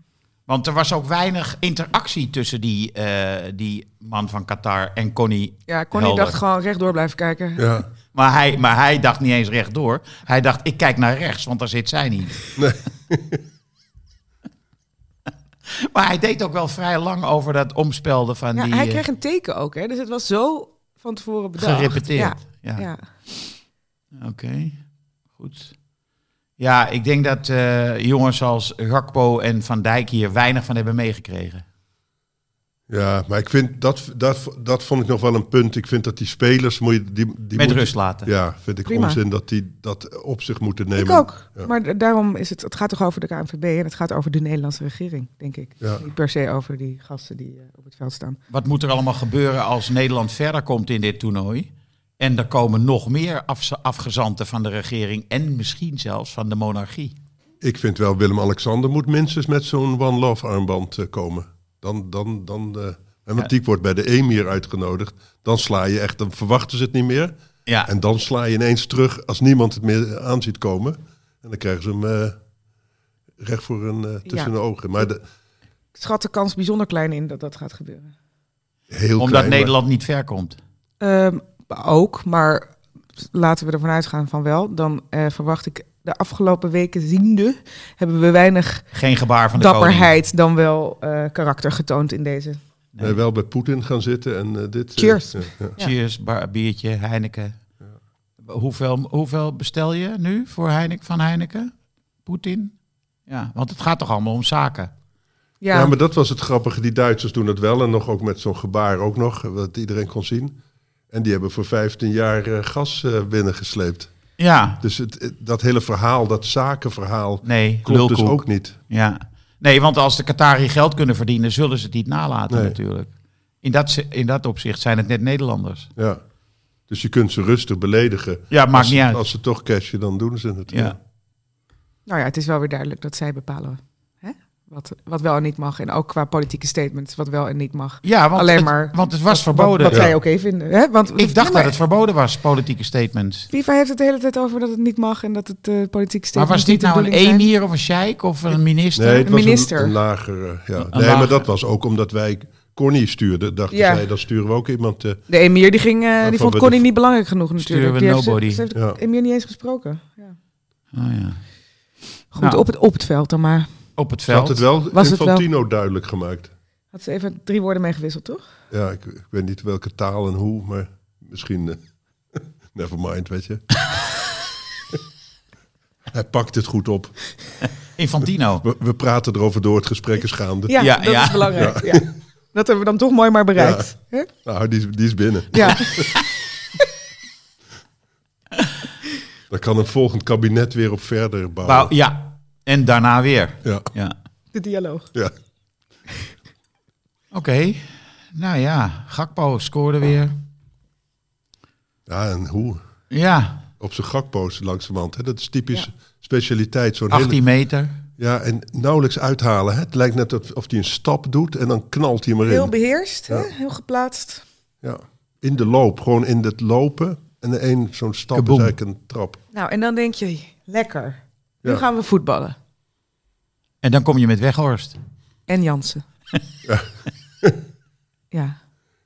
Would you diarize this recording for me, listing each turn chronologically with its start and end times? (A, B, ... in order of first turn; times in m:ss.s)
0:00.5-0:06.4 A
0:05.7-0:07.6 B
0:07.6-0:07.9 C
0:08.1-0:12.4 A
0:12.6-0:13.4 C
0:15.7-0:19.0 A
0:18.5-0:23.0 B
0:21.6-0:23.4 A
0:24.1-0:24.8 A
0:25.4-0:25.7 A
0:26.6-0:31.6 A
0:32.9-0:41.7 C
0:37.5-0:38.3 A
0:38.8-0:39.2 B
0:41.0-0:48.4 B
0:48.5-0:57.1 A
0:57.6-1:12.4 C
1:13.4-1:15.2 C
1:14.2-1:14.5 B
1:15.9-1:18.1 B
1:18.9-1:19.7 C
1:19.2-1:20.6 A
1:21.0-1:28.8 B
1:28.9-1:30.1 A
1:29.5-1:32.6 B
1:32.9-1:33.2 A
1:33.0-1:35.7 C
1:35.0-1:35.9 B
1:35.8-1:37.6 A
1:38.4-1:41.7 A
1:42.2-1:42.7 A
1:43.3-1:44.9 A
1:45.6-1:45.9 B
1:45.7-1:50.6 C
1:51.1-1:54.1 C
1:54.4-1:54.8 A
1:54.8-1:58.8 C
1:57.4-2:03.1 A
2:02.5-2:02.8 C
2:03.6-2:05.9 A
2:06.0-2:06.2 C
2:06.9-2:11.0 C
2:08.5-2:09.2 A
2:10.7-2:11.0 A
2:12.1-2:21.7 B
2:18.0-2:20.1 A
2:21.2-2:23.5 A
2:23.5-2:27.5 B
2:26.3-2:29.3 A
2:29.0-2:35.2 C
2:29.2-2:30.0 B
2:30.8-2:31.4 A
2:33.7-2:34.0 B
2:35.3-2:40.4 B
2:36.2-2:36.8 C
2:37.6-2:38.6 A
2:40.9-2:41.4 A
2:42.3-2:43.7 B
2:42.4-2:42.6 A
2:44.0-2:44.6 A
2:44.3-2:46.5 C
2:44.9-2:45.4 B
2:46.9-2:48.4 B
2:48.7-2:51.8 C
2:52.4-2:53.8 C
2:56.1-2:57.2 C
2:58.0-2:58.6 A
2:58.6-3:00.8 C
3:00.7-3:04.3 B
3:00.8-3:01.6 A
3:01.5-3:02.0 C
3:03.6-3:03.9 C
3:04.4-3:06.1 C
3:05.5-3:06.1 B
3:09.5-3:11.9 C
3:11.6-3:14.1 A
3:14.5-3:15.1 B
3:17.3-3:20.4 A
3:22.1-3:22.8 C
3:23.1-3:23.6 A
3:23.8-3:27.4 C
3:27.1-3:28.0 A
3:28.2-3:32.7 C
3:32.4-3:34.4 B
3:34.8-3:39.4 C
3:38.3-3:38.7 A
3:39.5-3:42.6 B
3:43.8-3:45.0 A
3:45.5-3:46.0 B